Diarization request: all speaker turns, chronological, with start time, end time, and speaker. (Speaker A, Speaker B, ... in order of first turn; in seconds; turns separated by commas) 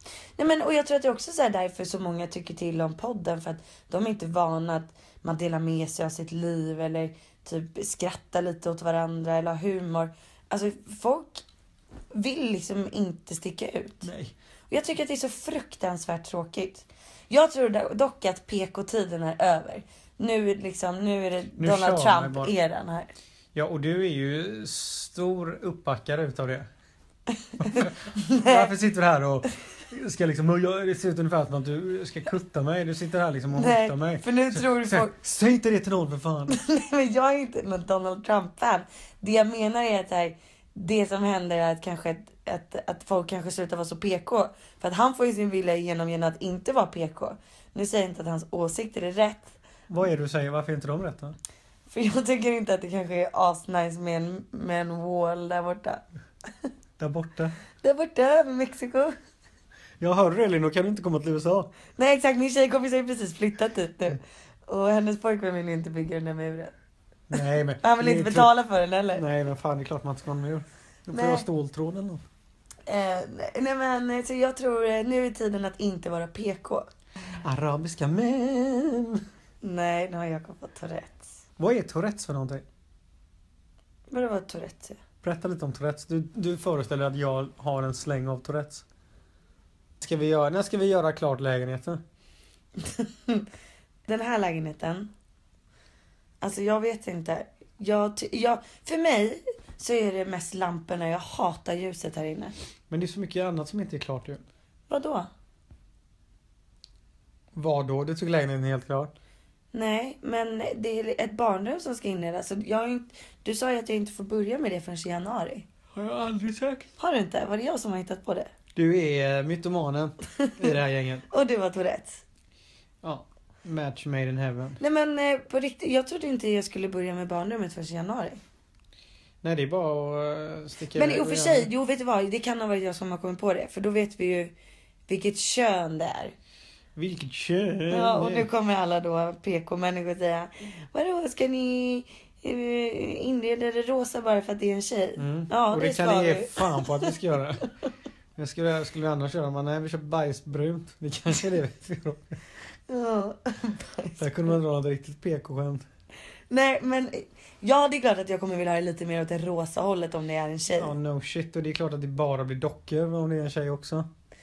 Speaker A: 0.4-11.4, Speaker A: 12.1-14.1, Speaker B: 14.0-14.3, Speaker A: 14.7-23.1, Speaker B: 21.6-22.5, Speaker B: 23.6-26.7, Speaker A: 27.6-28.7, Speaker B: 27.6-36.6, Speaker A: 33.5-35.1, Speaker A: 36.5-49.5, Speaker B: 49.9-51.4, Speaker A: 51.9-56.0, Speaker B: 57.0-57.5, Speaker A: 57.8-59.1, Speaker B: 60.0-61.7, Speaker A: 62.0-66.7, Speaker B: 67.3-68.5, Speaker A: 67.8-69.2, Speaker B: 69.2-72.2, Speaker A: 71.1-71.5, Speaker A: 72.9-76.9, Speaker B: 77.4-79.2, Speaker A: 79.6-81.4, Speaker B: 81.6-82.6, Speaker A: 84.1-85.0, Speaker B: 85.2-88.8, Speaker B: 90.0-92.0, Speaker A: 92.8-93.5, Speaker A: 94.1-95.1, Speaker A: 96.4-102.5, Speaker B: 102.9-104.4, Speaker A: 104.9-105.3, Speaker B: 107.5-109.1, Speaker A: 109.7-115.7, Speaker B: 115.9-116.9, Speaker A: 117.0-118.5, Speaker B: 118.8-121.2, Speaker A: 121.3-122.2, Speaker B: 123.0-124.8, Speaker A: 124.8-128.4, Speaker B: 129.4-131.7, Speaker A: 130.9-134.5, Speaker A: 135.1-136.3, Speaker B: 137.0-138.5, Speaker A: 137.9-147.1, Speaker B: 145.2-147.7, Speaker B: 148.4-152.4, Speaker A: 152.9-154.6, Speaker B: 154.2-155.8, Speaker A: 156.5-160.9, Speaker B: 160.8-164.1